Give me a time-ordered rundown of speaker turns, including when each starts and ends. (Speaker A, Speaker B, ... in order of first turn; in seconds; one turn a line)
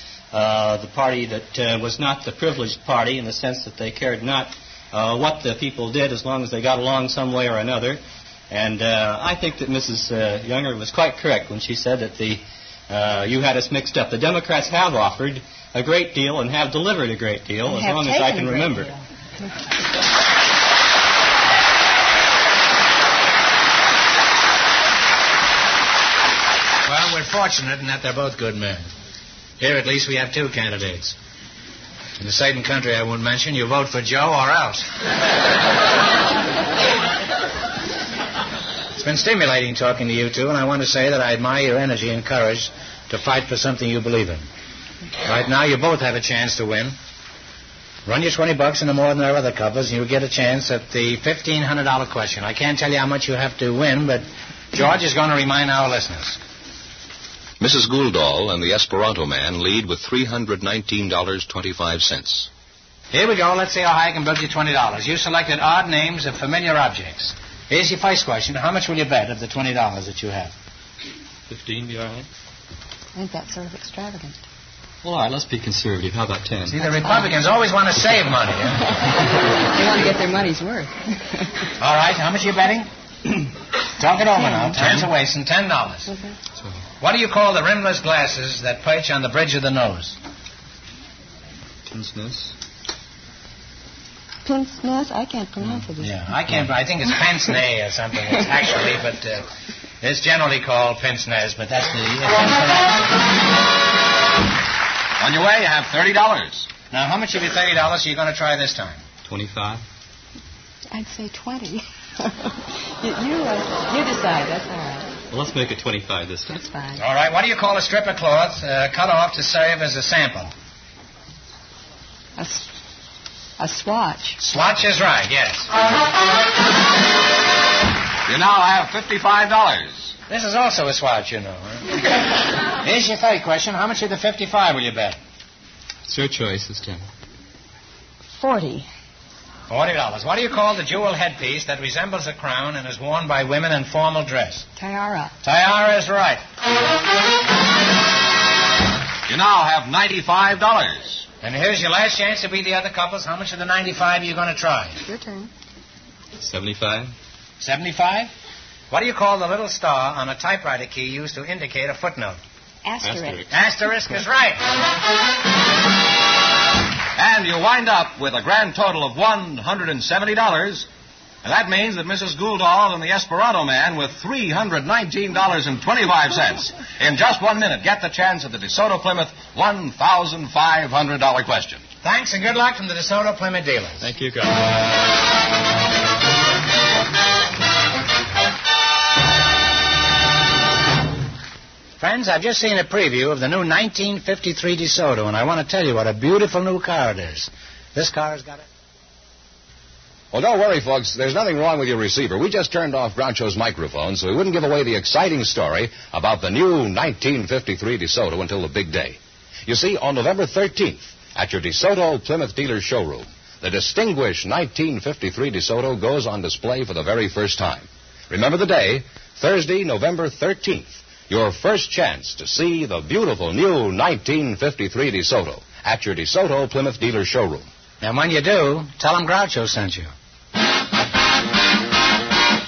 Speaker A: 0.3-18.9
Speaker B: 17.6-19.0
Speaker C: 26.9-28.9
Speaker C: 29.6-31.2
Speaker C: 32.2-34.9
Speaker C: 38.9-44.5
Speaker C: 45.2-47.0
Speaker C: 48.0-56.4
Speaker D: 57.6-62.5
Speaker C: 63.1-70.5
Speaker A: 71.5-72.3
Speaker B: 73.2-74.4
Speaker A: 75.0-76.8
Speaker C: 76.7-79.0
Speaker B: 76.8-77.3
Speaker B: 79.6-81.5
Speaker C: 81.8-86.1
Speaker B: 84.5-84.8
Speaker B: 86.1-86.4
Speaker C: 87.0-90.2
Speaker A: 91.8-92.5
Speaker B: 94.4-96.2
Speaker C: 96.0-103.1
Speaker D: 105.2-106.7
Speaker C: 106.9-109.0
Speaker A: 109.2-109.8
Speaker B: 110.9-115.1
Speaker A: 115.3-116.6
Speaker B: 116.5-117.0
Speaker C: 117.0-120.5
Speaker B: 122.4-122.7
Speaker B: 123.6-124.4
Speaker C: 124.4-125.7
Speaker D: 128.3-130.1
Speaker C: 130.3-132.3
Speaker C: 132.8-135.2
Speaker A: 136.1-137.0
Speaker B: 138.3-138.9
Speaker C: 139.7-144.7
Speaker B: 144.8-145.3
Speaker C: 145.4-146.4
Speaker D: 149.3-151.2
Speaker C: 151.4-155.0
Speaker B: 155.1-155.5
Speaker A: 156.3-157.1
Speaker C: 157.6-158.3
Speaker C: 158.9-162.4
Speaker B: 162.8-163.4
Speaker A: 163.0-163.5
Speaker C: 163.5-164.7
Speaker D: 167.2-170.9
Speaker D: 171.4-181.8
Speaker C: 182.0-184.0
Speaker A: 184.0-184.7
Speaker C: 192.0-198.7
Speaker D: 200.3-227.7
Speaker C: 228.0-230.1